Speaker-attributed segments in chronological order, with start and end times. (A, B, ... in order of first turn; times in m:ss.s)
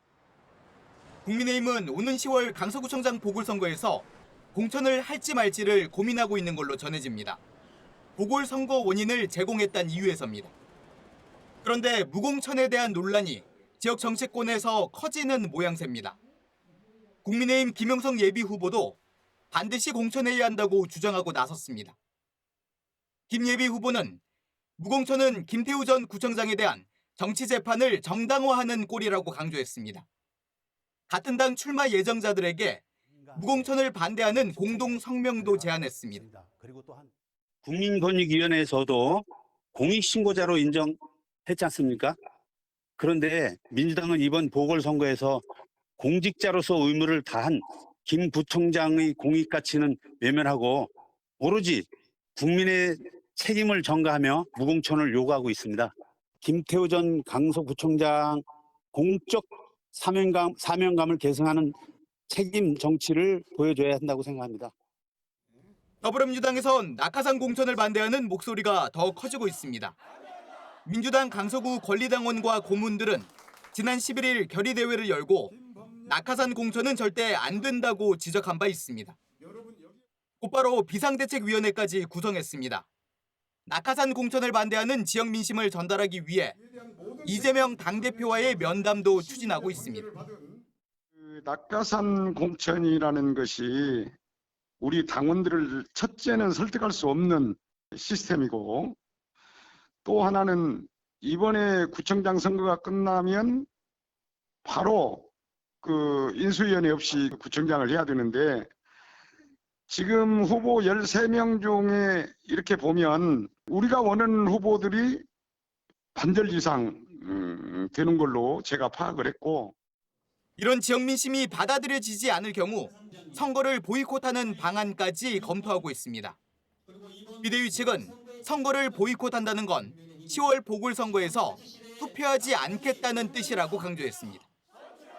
0:01.2-0:07.4 A
0:08.2-0:10.5 A
0:11.6-0:16.2 A
0:17.2-0:19.0 A
0:19.5-0:22.0 A
0:23.3-0:24.2 A
0:24.8-0:30.0 A
0:31.1-0:32.8 A
0:33.1-0:33.7 B
0:33.3-0:36.2 A
0:34.3-0:37.1 B
0:37.6-0:42.2 B
0:43.0-0:45.4 B
0:46.0-1:01.8 B
1:02.3-1:04.7 B
1:06.0-1:10.0 A
1:10.9-1:19.2 A
1:19.6-1:19.8 C
1:20.4-1:22.9 A
1:23.7-1:26.6 A
1:26.8-1:30.6 C
1:27.2-1:30.1 A
1:31.2-1:34.1 C
1:34.8-1:39.0 C
1:40.0-1:43.7 C
1:44.6-1:45.3 C
1:45.8-1:48.7 C
1:49.9-1:55.2 C
1:56.2-1:59.7 C
2:00.6-2:06.4 A
2:07.4-2:14.5 A